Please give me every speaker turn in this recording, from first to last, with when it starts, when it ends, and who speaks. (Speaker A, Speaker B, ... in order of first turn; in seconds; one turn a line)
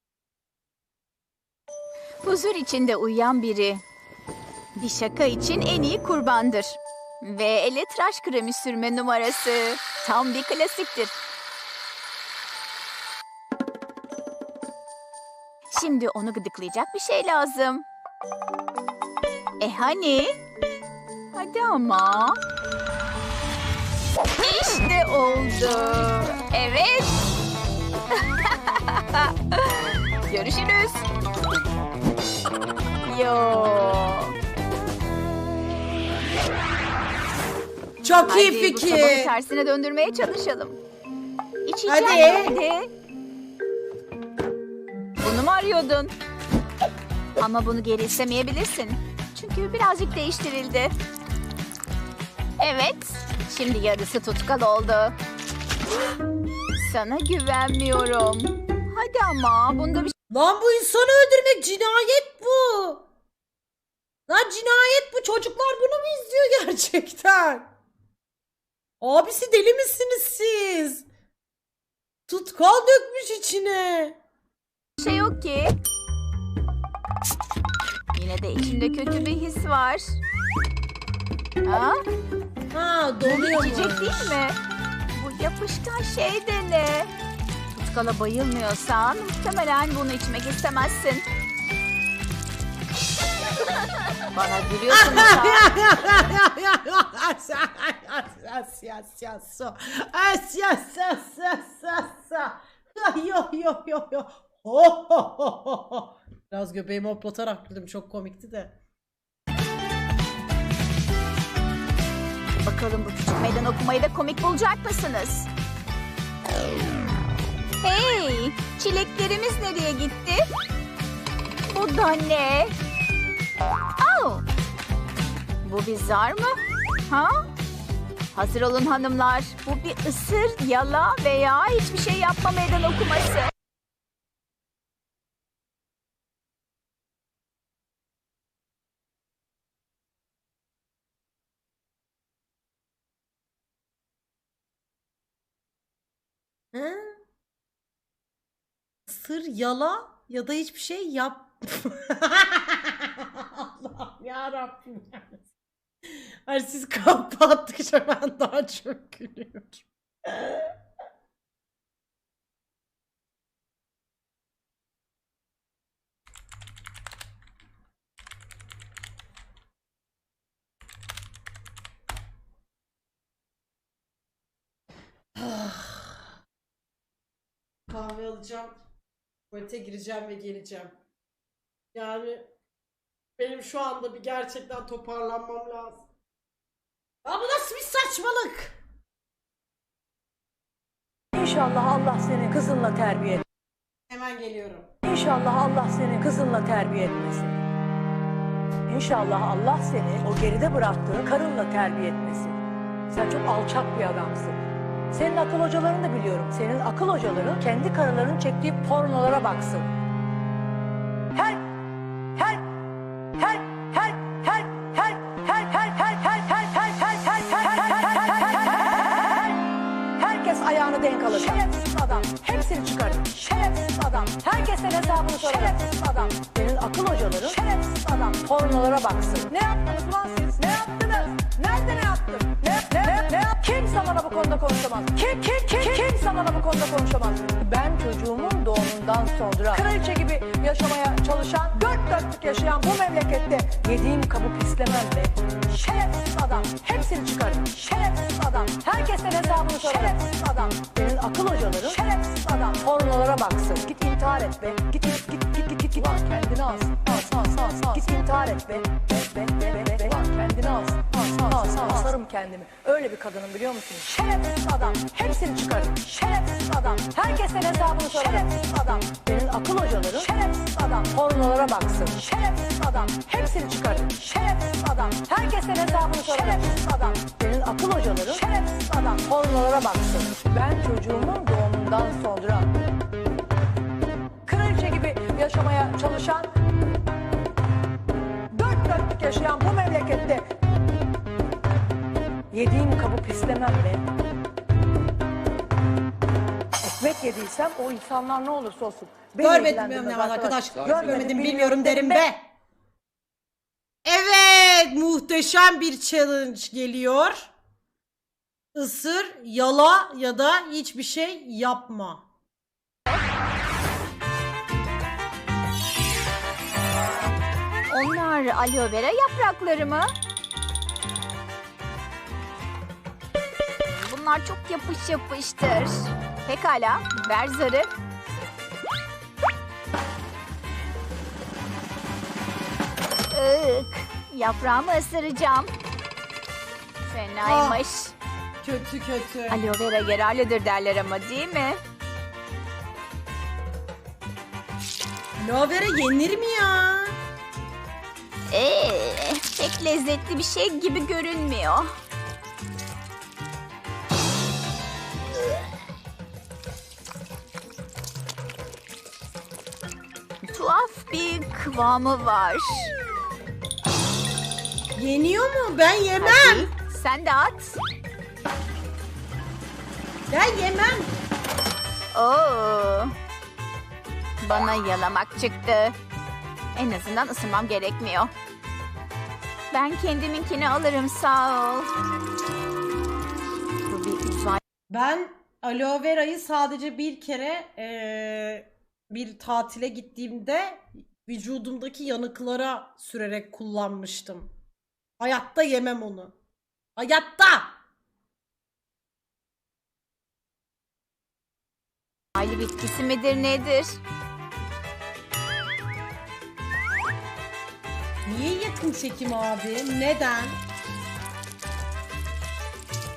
Speaker A: 2.2-3.8
Speaker A: 4.8-11.1
Speaker A: 15.7-17.9
Speaker A: 19.6-20.4
Speaker A: 21.4-22.4
Speaker A: 24.4-27.2
Speaker A: 28.1-31.1
Speaker A: 33.1-34.4
Speaker B: 38.0-39.3
Speaker A: 38.3-40.8
Speaker A: 41.7-42.9
Speaker B: 41.9-42.6
Speaker A: 45.2-46.1
Speaker A: 47.4-50.9
Speaker A: 52.6-55.2
Speaker A: 56.8-60.1
Speaker B: 60.3-63.0
Speaker B: 64.3-67.7
Speaker B: 69.0-71.1
Speaker B: 72.3-74.2
Speaker A: 75.0-75.8
Speaker A: 78.1-80.1
Speaker A: 81.6-82.0
Speaker B: 82.7-84.3
Speaker A: 83.2-84.6
Speaker A: 85.2-87.1
Speaker A: 87.8-91.2
Speaker A: 94.3-95.7
Speaker B: 94.9-108.8
Speaker A: 112.6-115.5
Speaker A: 117.8-120.4
Speaker A: 121.7-122.7
Speaker A: 124.0-124.5
Speaker A: 125.6-127.3
Speaker A: 128.3-133.5
Speaker B: 146.7-147.2
Speaker B: 149.1-155.5
Speaker B: 156.1-160.7
Speaker B: 175.4-176.2
Speaker B: 177.9-178.8
Speaker B: 179.5-181.0
Speaker B: 181.9-182.5
Speaker B: 183.4-186.1
Speaker B: 187.2-188.8
Speaker C: 191.3-193.4
Speaker B: 194.1-194.9
Speaker C: 195.0-197.6
Speaker C: 198.9-202.6
Speaker C: 203.1-204.6
Speaker C: 205.1-209.9
Speaker C: 211.3-211.7
Speaker C: 212.4-212.7
Speaker C: 213.4-219.6
Speaker C: 220.2-282.7
Speaker C: 284.5-286.5
Speaker C: 288.5-290.5
Speaker C: 292.5-294.1
Speaker C: 296.8-302.3
Speaker B: 299.4-302.4
Speaker B: 304.1-307.5
Speaker B: 308.7-312.3
Speaker A: 317.9-320.1
Speaker A: 323.9-327.9
Speaker A: 333.3-335.7
Speaker A: 337.1-338.1
Speaker B: 337.4-337.8
Speaker B: 338.6-339.6
Speaker A: 339.5-341.8
Speaker B: 345.4-347.2
Speaker A: 348.5-351.9
Speaker A: 360.5-362.9
Speaker B: 365.0-366.7
Speaker A: 366.2-367.8
Speaker B: 370.3-371.1
Speaker A: 372.1-373.1
Speaker A: 374.4-375.9
Speaker A: 376.8-378.3
Speaker A: 379.7-381.9
Speaker A: 383.9-384.6
Speaker B: 384.9-394.5
Speaker B: 395.2-396.3
Speaker B: 397.0-397.8
Speaker A: 402.4-404.0
Speaker B: 408.3-410.6